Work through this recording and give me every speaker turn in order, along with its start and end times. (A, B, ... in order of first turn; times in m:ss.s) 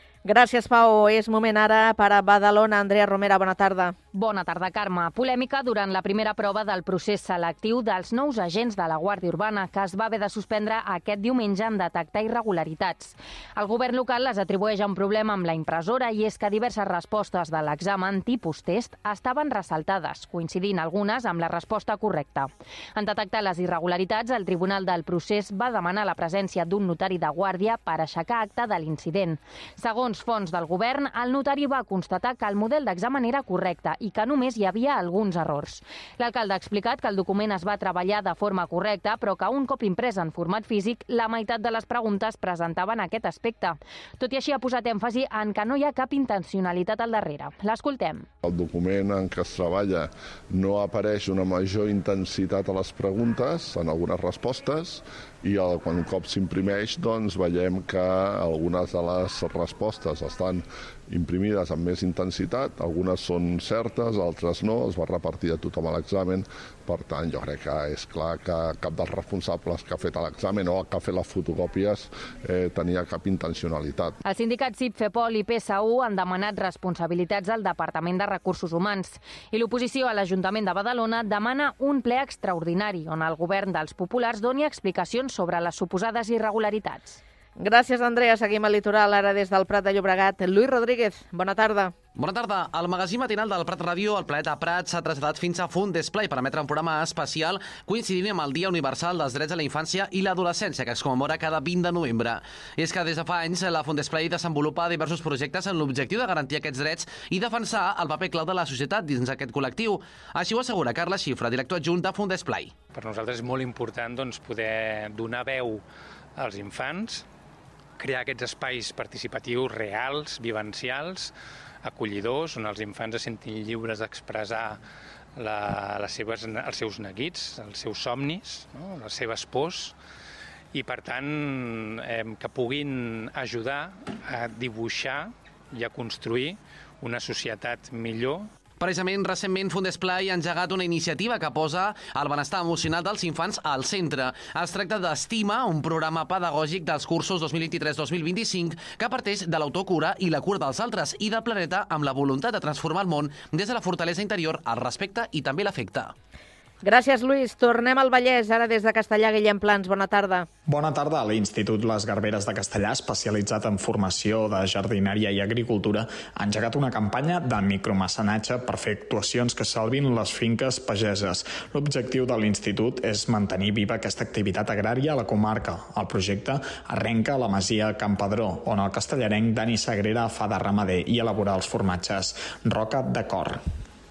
0:00.2-0:04.0 A
0:04.1-0:48.2 B
0:48.4-1:14.2 C
1:14.2-1:27.2 B
1:27.6-1:31.9 A
1:32.2-1:52.8 D
1:52.9-1:55.8 E
1:56.4-1:57.3 E
1:58.0-2:04.8 E
2:05.4-2:10.0 E
2:10.7-2:18.5 E
2:18.8-2:36.1 D
2:36.8-2:40.5 A
2:40.6-3:03.6 F